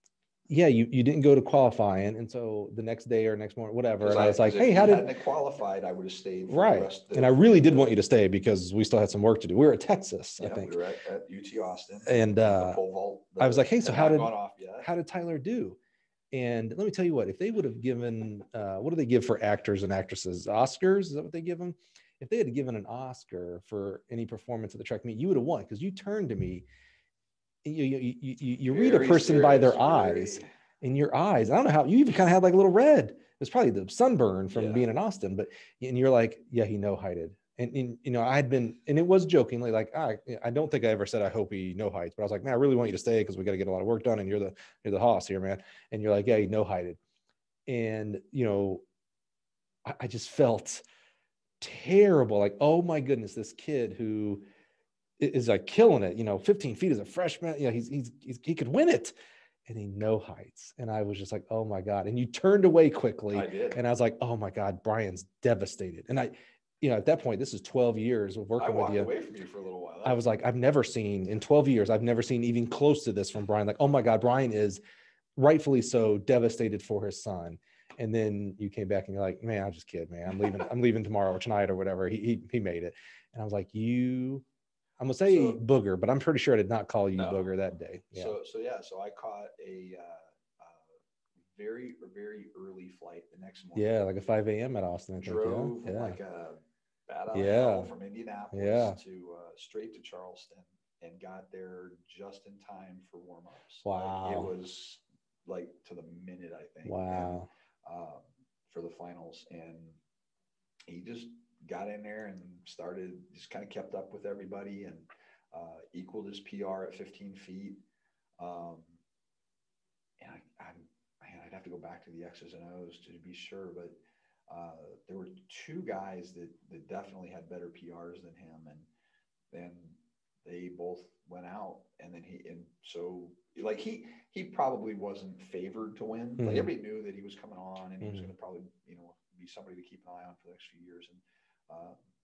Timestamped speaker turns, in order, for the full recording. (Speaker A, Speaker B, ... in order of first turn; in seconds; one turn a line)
Speaker A: 0.5-5.0
Speaker B: 4.0-8.0
Speaker A: 6.5-10.8
Speaker B: 10.4-14.9
Speaker A: 12.1-12.8
Speaker A: 13.4-15.8
Speaker A: 16.3-26.6
Speaker A: 27.6-47.0
Speaker B: 28.7-30.5
Speaker B: 34.5-34.9
Speaker A: 47.7-48.8
Speaker A: 49.9-50.8
Speaker A: 51.6-54.5
Speaker A: 55.2-59.1
Speaker A: 59.7-69.1
Speaker B: 63.3-63.8
Speaker B: 68.6-70.4
Speaker A: 70.0-74.8
Speaker A: 75.3-84.4
Speaker A: 85.0-88.3
Speaker B: 85.2-85.6
Speaker B: 87.1-87.5
Speaker B: 88.1-90.9
Speaker B: 91.5-93.9
Speaker A: 93.7-96.2
Speaker B: 95.2-110.0
Speaker A: 97.3-97.9
Speaker A: 98.5-99.0
Speaker A: 103.8-104.5
Speaker A: 106.8-107.5
Speaker B: 110.9-117.8
Speaker B: 118.4-119.0
Speaker B: 120.2-124.0
Speaker B: 124.5-128.9
Speaker B: 129.5-142.0
Speaker A: 136.4-136.7
Speaker A: 138.0-138.3